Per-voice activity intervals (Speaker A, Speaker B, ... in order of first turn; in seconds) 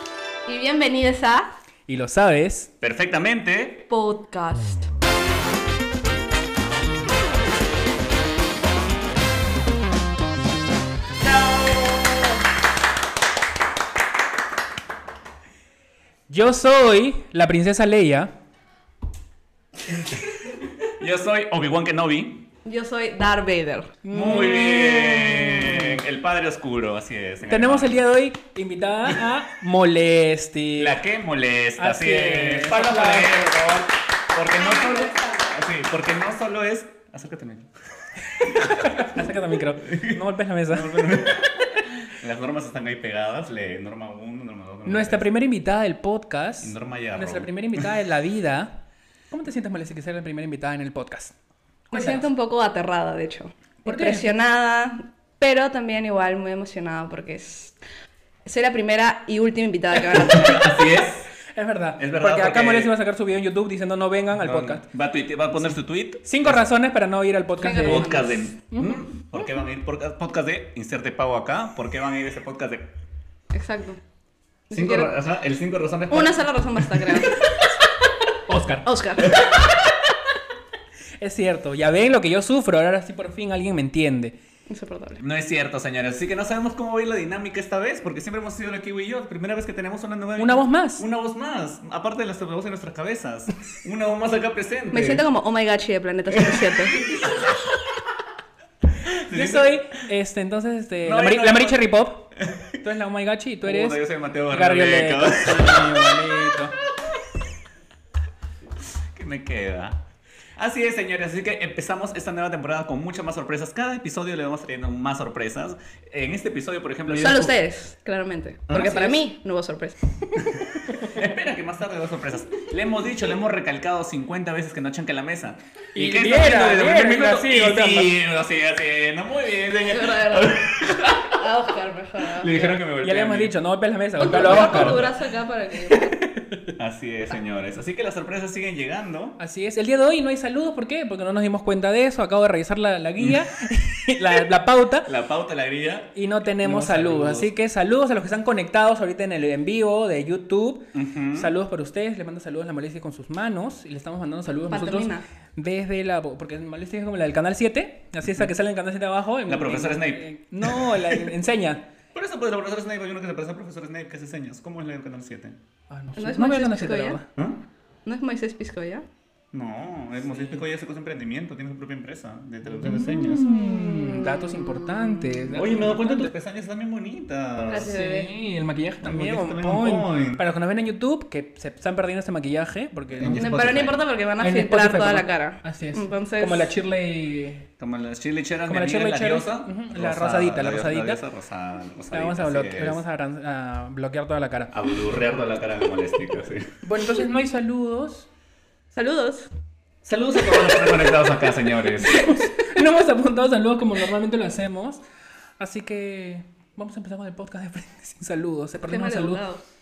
Speaker A: 0.5-1.5, 3.9-4.9, 22.6-24.0, 51.9-57.7, 58.4-60.7, 67.6-68.5, 73.5-74.0, 74.7-75.1, 76.1-77.4, 78.8-79.6, 84.7-85.2, 94.9-97.0, 117.2-120.0, 129.9-130.6, 131.2-132.7, 134.2-136.2, 154.7-155.2, 166.2-167.2, 168.1-169.1, 173.5-175.3, 177.7-178.3, 183.3-186.7, 198.9-199.5, 200.4-201.2, 208.8-209.6
Speaker B: 1.9-2.7, 16.3-18.3, 24.0-26.0, 27.4-31.0, 31.8-33.4, 38.4-41.2, 44.8-51.3, 51.9-52.2, 53.8-54.3, 61.5-64.8, 66.2-69.0, 78.5-78.9, 81.2-84.4, 90.4-91.0, 99.3-106.8, 120.8-121.1, 125.9-128.1, 133.0-135.1, 135.9-136.7, 139.4-145.1, 146.1-161.9, 165.9-167.2, 172.7-176.3, 177.8-183.6, 184.4-187.7, 188.7-191.2, 192.1-194.7, 196.8-198.3, 202.0-205.0, 205.6-209.4
Speaker C: 2.8-3.9, 11.2-12.4, 19.9-22.4, 24.1-28.0, 30.8-37.7, 38.4-39.4, 39.9-45.2, 46.6-47.9, 60.1-61.3, 62.0-62.9, 64.3-66.7, 67.8-73.0, 74.7-77.3, 79.2-79.7, 85.2-95.2, 96.3-97.7, 99.1-99.8, 101.0-102.7, 103.6-106.1, 109.1-110.0, 110.6-117.5, 118.7-119.2, 120.3-131.4, 132.2-133.5, 134.2-135.2, 136.8-139.4, 143.2-143.4, 145.0-147.5, 150.9-151.5, 159.5-161.3, 162.1-165.6, 167.3-167.6, 169.5-173.5, 175.5-177.9, 179.0-180.4, 183.1-184.0, 187.8-193.0, 194.7-196.7, 200.0-202.3